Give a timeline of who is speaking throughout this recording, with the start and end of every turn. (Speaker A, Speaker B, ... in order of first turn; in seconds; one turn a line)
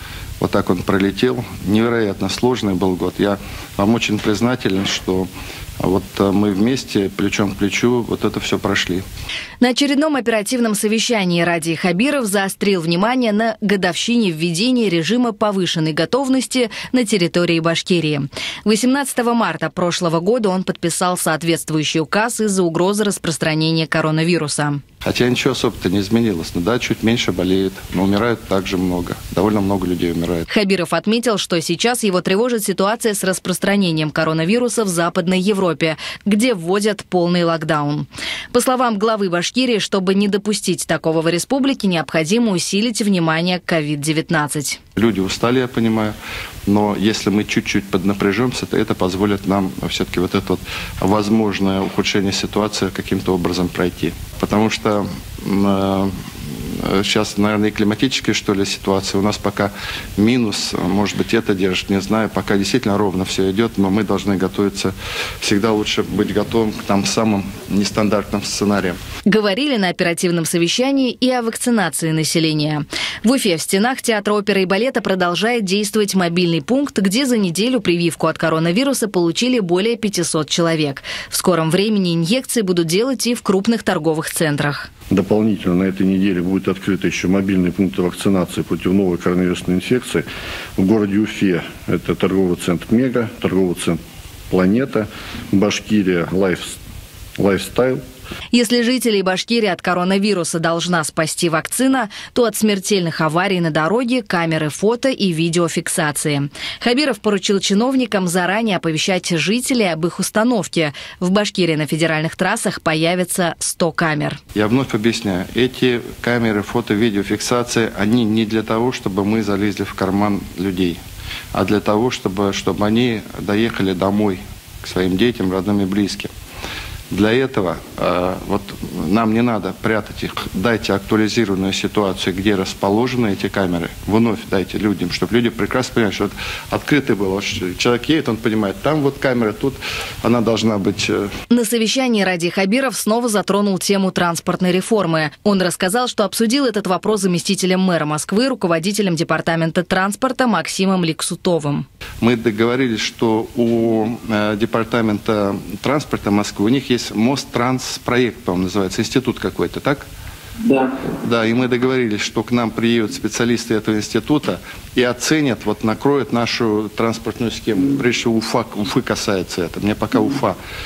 Speaker A: 0.4-5.3
Speaker A: 5.8-9.0
Speaker B: 9.6-24.8
Speaker A: 25.0-30.5
Speaker B: 30.5-44.8
Speaker A: 45.0-46.1
Speaker A: 46.6-69.0
Speaker B: 69.3-84.9
Speaker C: 85.1-90.2
Speaker C: 90.8-94.0
Speaker C: 94.5-96.8
Speaker C: 97.4-98.0
Speaker B: 98.5-114.4
Speaker A: 114.5-121.0
Speaker A: 121.5-126.3
Speaker A: 127.1-141.3
Speaker B: 141.5-151.8
Speaker A: 152.2-160.0
Speaker A: 160.8-170.6